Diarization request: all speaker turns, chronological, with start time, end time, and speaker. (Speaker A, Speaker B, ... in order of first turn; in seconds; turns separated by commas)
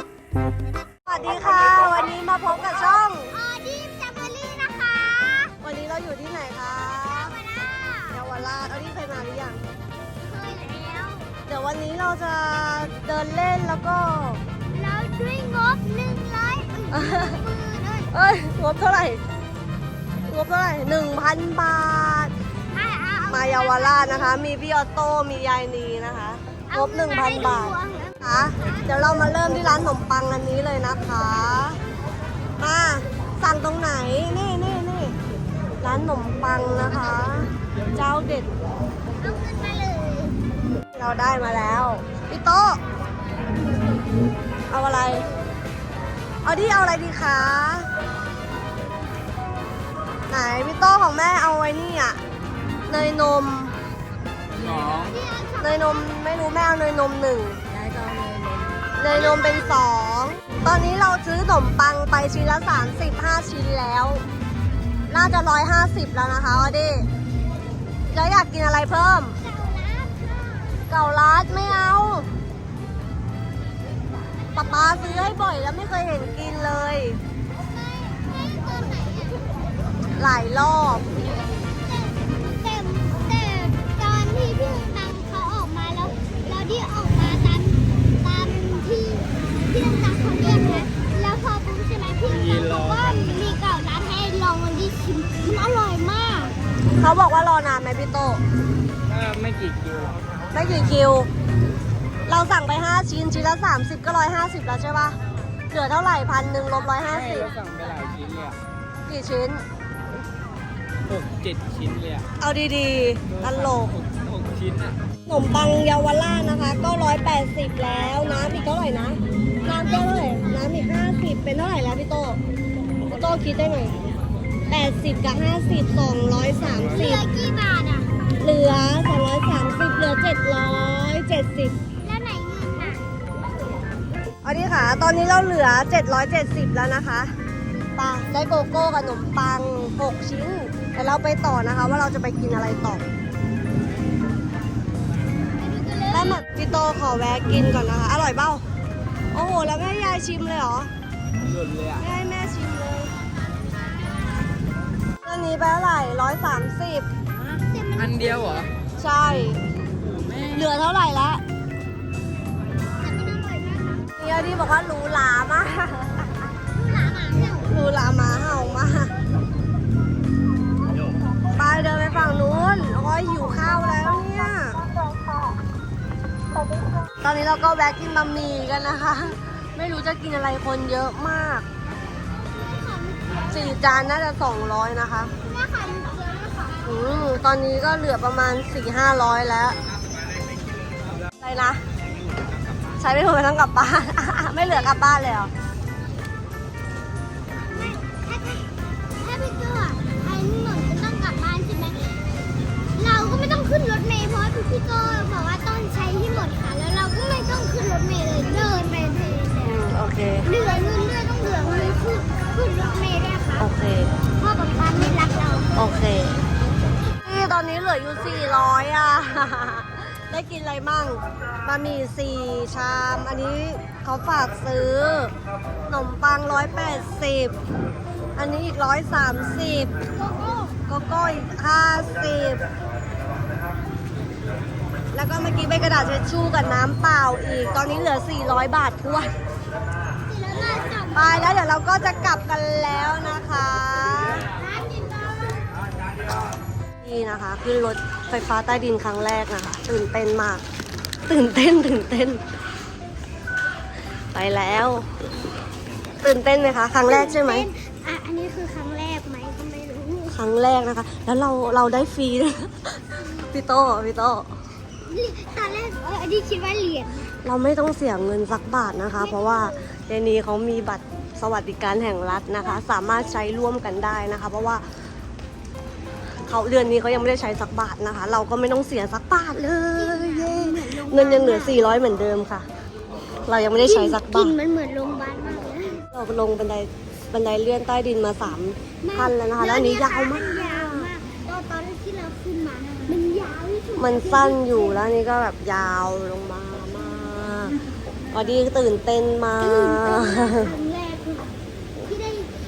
Speaker A: 1.1-3.3, Speaker B: 2.7-5.5, Speaker A: 5.6-7.3, Speaker B: 7.0-8.2, Speaker A: 8.1-9.6, Speaker B: 10.2-11.3, Speaker A: 11.5-14.4, Speaker B: 14.7-18.1, Speaker A: 16.9-17.4, Speaker A: 18.1-19.2, Speaker A: 20.3-22.3, Speaker B: 22.7-24.4, Speaker A: 23.3-31.8, Speaker B: 26.7-28.9, Speaker A: 32.6-35.2, Speaker A: 35.8-38.5, Speaker B: 39.2-40.4, Speaker A: 40.9-42.8, Speaker A: 44.7-45.3, Speaker A: 46.4-47.9, Speaker A: 50.3-52.2, Speaker A: 52.9-53.8, Speaker C: 54.5-55.2, Speaker B: 54.6-56.1, Speaker A: 55.6-57.6, Speaker C: 57.7-58.7, Speaker A: 59.0-64.2, Speaker B: 59.1-59.9, Speaker A: 65.1-67.1, Speaker A: 68.1-69.4, Speaker B: 69.3-70.7, Speaker A: 70.9-72.3, Speaker B: 74.5-75.4, Speaker A: 74.5-77.2, Speaker B: 77.6-79.5, Speaker A: 80.2-81.1, Speaker B: 81.2-96.6, Speaker C: 92.3-93.0, Speaker A: 97.0-98.4, Speaker C: 99.1-100.2, Speaker A: 100.5-101.3, Speaker A: 102.3-105.2, Speaker A: 105.7-107.5, Speaker C: 107.1-108.6, Speaker A: 109.1-109.6, Speaker C: 111.1-112.3, Speaker A: 112.4-114.0, Speaker C: 113.3-115.0, Speaker A: 115.3-122.4, Speaker B: 119.7-120.8, Speaker A: 123.0-124.0, Speaker A: 124.7-127.3, Speaker B: 126.8-128.1, Speaker A: 128.4-131.8, Speaker B: 132.0-133.1, Speaker A: 134.4-137.3, Speaker A: 138.0-143.0, Speaker B: 145.6-146.4, Speaker A: 146.1-148.6, Speaker A: 149.3-150.9, Speaker C: 151.5-152.0, Speaker A: 152.0-153.1, Speaker A: 155.2-157.1, Speaker B: 157.3-158.7, Speaker C: 158.0-158.7, Speaker A: 159.0-159.6, Speaker C: 160.0-160.7, Speaker A: 160.5-161.4, Speaker B: 163.0-164.1, Speaker A: 164.2-166.3, Speaker B: 166.8-167.8, Speaker A: 167.7-169.1, Speaker A: 171.6-174.8, Speaker A: 177.2-181.7, Speaker B: 182.5-184.1, Speaker A: 183.5-185.3, Speaker B: 185.4-187.2, Speaker A: 186.8-189.8, Speaker A: 191.4-191.8, Speaker A: 193.0-195.5, Speaker B: 194.6-195.0, Speaker B: 197.6-198.6, Speaker B: 199.2-202.2, Speaker B: 202.9-209.7, Speaker A: 209.6-210.5, Speaker B: 210.4-213.7, Speaker A: 213.6-214.1, Speaker B: 214.4-215.7, Speaker A: 215.8-216.4, Speaker A: 217.2-225.3, Speaker A: 225.9-227.6, Speaker A: 228.4-229.9, Speaker B: 230.2-230.7, Speaker A: 230.9-232.7, Speaker A: 235.1-239.3, Speaker B: 240.2-241.6, Speaker A: 241.2-244.5, Speaker B: 244.6-245.7, Speaker A: 247.0-250.6, Speaker A: 251.3-252.4, Speaker A: 254.3-255.1, Speaker A: 256.2-257.7, Speaker B: 257.1-260.4, Speaker A: 260.3-264.5, Speaker B: 265.1-267.3, Speaker A: 267.4-274.8, Speaker B: 269.2-269.9, Speaker A: 276.5-282.7, Speaker B: 279.9-281.9, Speaker A: 283.5-284.6, Speaker B: 283.8-286.0, Speaker A: 286.1-291.1, Speaker B: 289.0-295.0, Speaker A: 294.0-297.8, Speaker A: 298.3-300.7, Speaker B: 299.6-302.5